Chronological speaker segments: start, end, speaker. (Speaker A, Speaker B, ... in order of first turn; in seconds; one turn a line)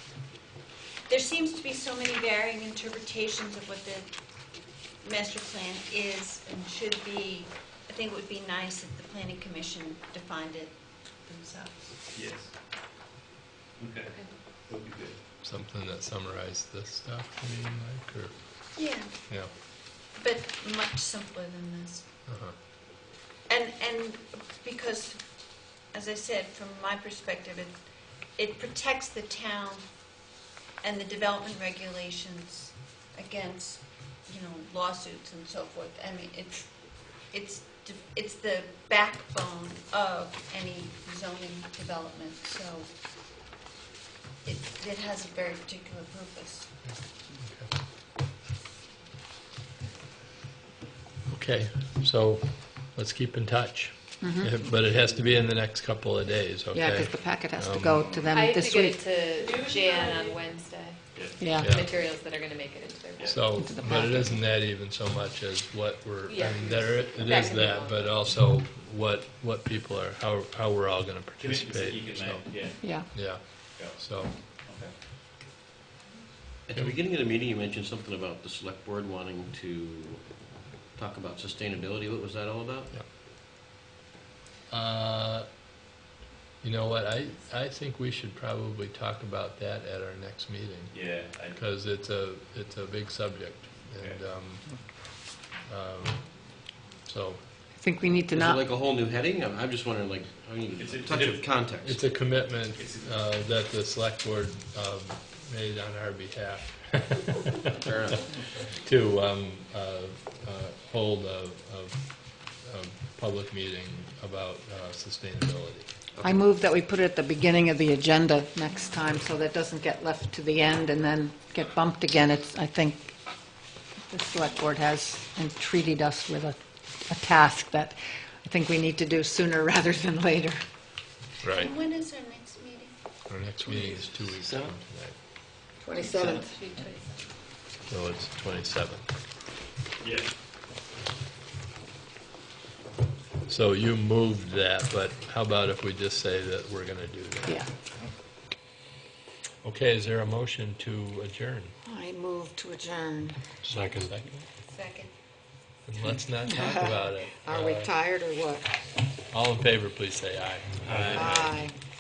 Speaker A: 1.1-4.2
Speaker A: 5.0-12.0
Speaker B: 12.1-12.5
Speaker B: 13.8-15.2
Speaker C: 15.4-19.5
Speaker A: 18.8-22.1
Speaker C: 22.3-22.6
Speaker A: 23.5-30.1
Speaker A: 30.8-42.9
Speaker A: 44.4-46.7
Speaker C: 46.8-47.7
Speaker C: 51.3-58.1
Speaker D: 54.2-54.5
Speaker D: 56.7-59.1
Speaker E: 58.3-63.6
Speaker B: 59.4-60.3
Speaker B: 61.1-61.5
Speaker D: 61.4-61.7
Speaker C: 61.6-61.9
Speaker B: 63.2-63.5
Speaker C: 63.2-74.4
Speaker D: 63.6-64.4
Speaker E: 66.3-68.3
Speaker B: 71.4-72.8
Speaker D: 72.8-73.2
Speaker B: 74.6-74.9
Speaker F: 76.7-82.9
Speaker C: 84.7-85.6
Speaker C: 86.6-97.5
Speaker B: 90.9-91.6
Speaker D: 97.8-98.7
Speaker F: 98.3-102.0
Speaker B: 100.8-101.6
Speaker C: 101.6-107.8
Speaker B: 102.7-103.2
Speaker F: 107.8-108.3
Speaker C: 108.6-115.9
Speaker F: 116.1-116.4
Speaker D: 116.2-123.1
Speaker D: 124.1-126.6
Speaker D: 127.1-130.6
Speaker C: 131.4-131.7
Speaker A: 131.5-132.9
Speaker C: 133.3-135.2
Speaker F: 134.4-134.7
Speaker D: 135.8-136.5
Speaker E: 136.4-137.3
Speaker C: 137.9-139.1
Speaker B: 140.0-140.3
Speaker C: 143.4-147.6
Speaker C: 149.6-151.7
Speaker D: 151.8-153.4
Speaker C: 153.6-154.4
Speaker A: 154.7-155.1
Speaker C: 155.8-157.9
Speaker D: 156.5-158.7
Speaker C: 159.3-161.6
Speaker B: 160.8-161.2
Speaker D: 161.1-161.7